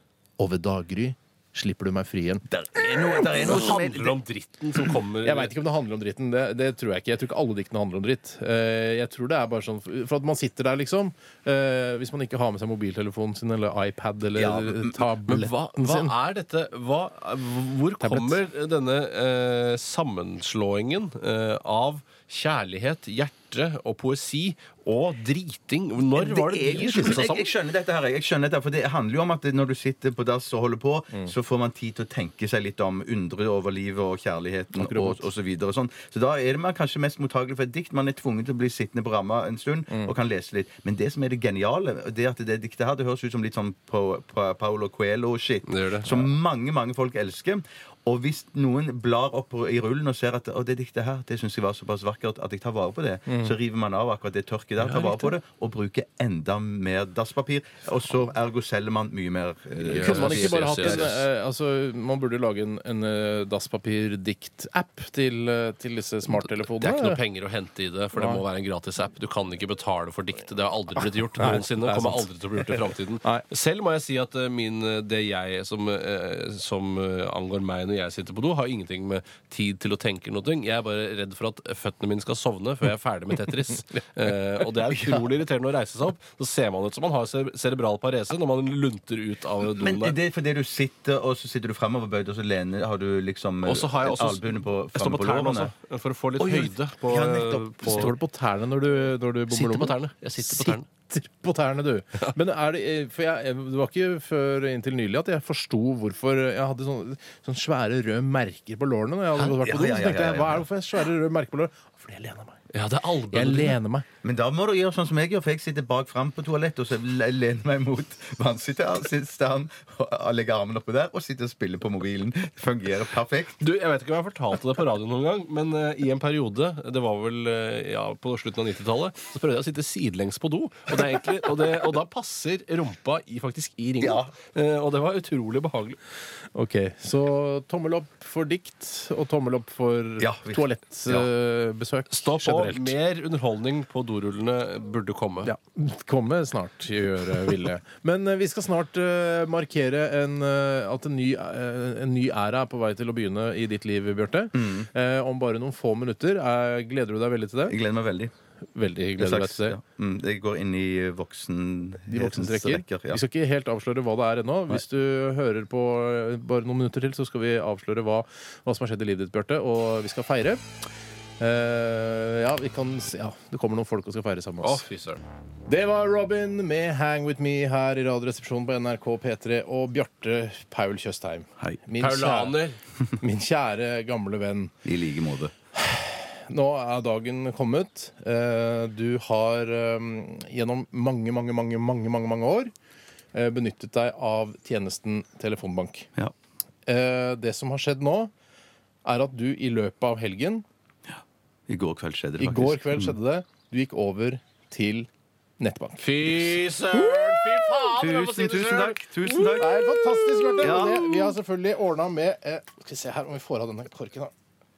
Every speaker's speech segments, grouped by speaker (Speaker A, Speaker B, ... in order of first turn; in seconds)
Speaker A: 0.4-2.4, 5.2-16.1, 18.0-18.4, 34.8-35.2, 53.3-53.5, 59.9-67.2, 68.2-68.4, 71.4-73.4, 97.8-112.6, 113.3-114.0, 136.5-142.9, 145.4-157.8, 158.7-159.8, 162.1-170.6, 171.4-174.8, 175.7-182.6, 183.2-184.7, 185.7-192.7, 193.3-196.1, 196.9-198.3, 199.0-200.6, 202.4-205.1, 205.6-206.5, 209.6-214.3
Speaker B: 2.5-4.2, 14.3-15.1, 26.1-61.1, 84.9-85.2, 89.7-95.7, 96.4-98.1, 109.4-110.6, 114.2-123.6, 134.0-134.3, 140.2-141.2, 154.5-154.9, 157.7-158.3, 159.2-163.2, 184.8-185.5, 201.1-203.1, 207.9-209.8, 210.6-211.3
Speaker C: 3.1-5.5, 15.3-27.5, 45.7-46.3, 54.9-55.2, 59.8-61.2, 66.7-90.2, 93.6-98.1, 99.5-100.8, 112.7-113.8, 123.6-136.0, 142.1-145.5, 174.6-175.2, 182.0-182.8, 206.0-209.6